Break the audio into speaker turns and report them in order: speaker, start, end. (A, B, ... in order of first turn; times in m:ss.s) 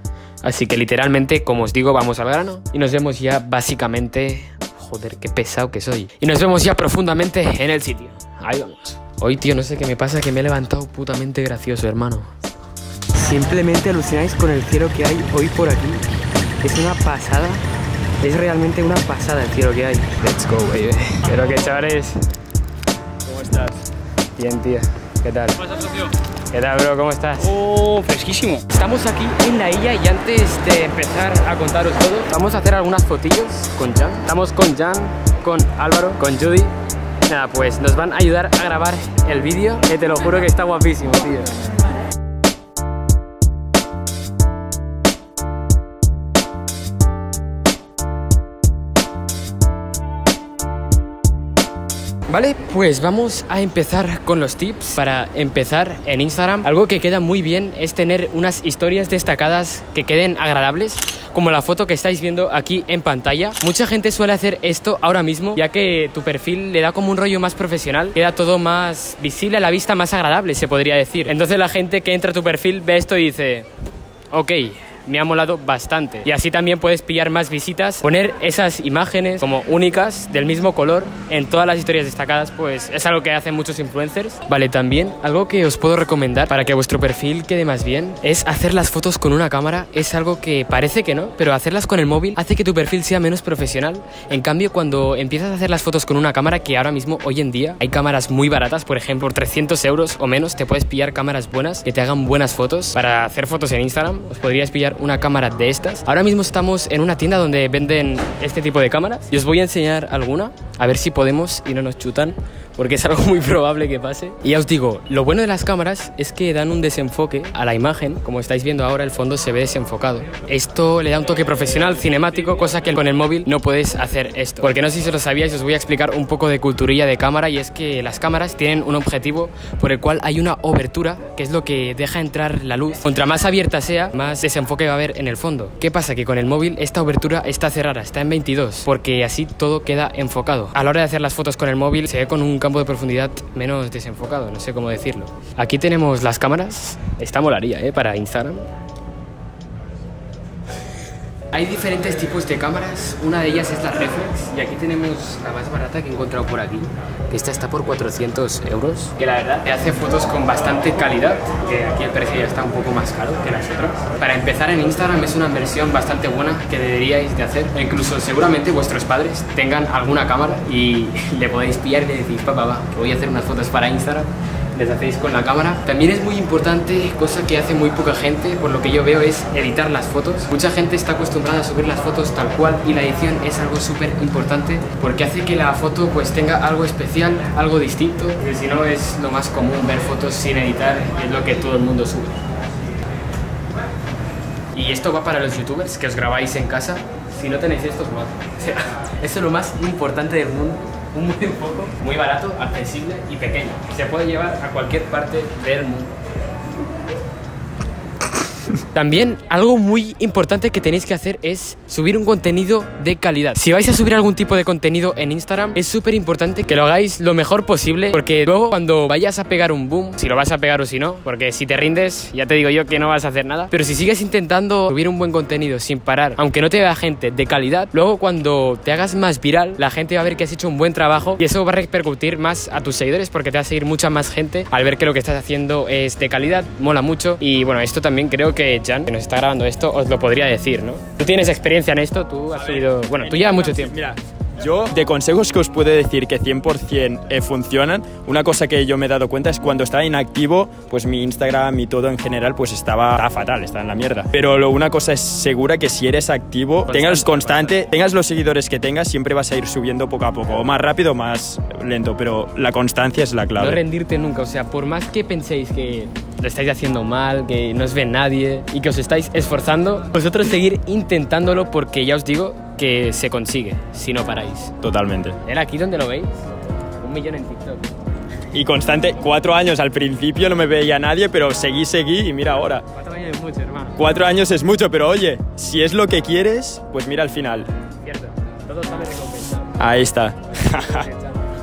0:00.4-0:12.3 A
0:13.2-0:16.0 A
0:16.6-0:17.6 A
0:18.2-0:22.2 A
0:23.2-0:23.8 B
0:24.4-0:27.6 A
0:27.4-0:28.6 B
0:28.7-0:36.7 A
0:37.2-0:41.6 A
0:52.3-1:13.7 A
1:14.3-2:28.7 A
2:31.5-3:12.4 A
3:14.7-3:26.1 A
3:28.9-4:03.9 A
4:02.5-4:23.8 B
4:16.9-4:17.8 A
4:23.6-4:34.7 A
4:34.8-4:35.4 B
4:35.4-4:36.3 A
4:37.0-4:37.9 A
4:38.5-4:42.8 B
4:42.9-4:44.0 A
4:44.0-4:47.7 B
4:48.0-4:49.8 A
4:49.8-4:51.1 B
4:50.6-4:51.4 A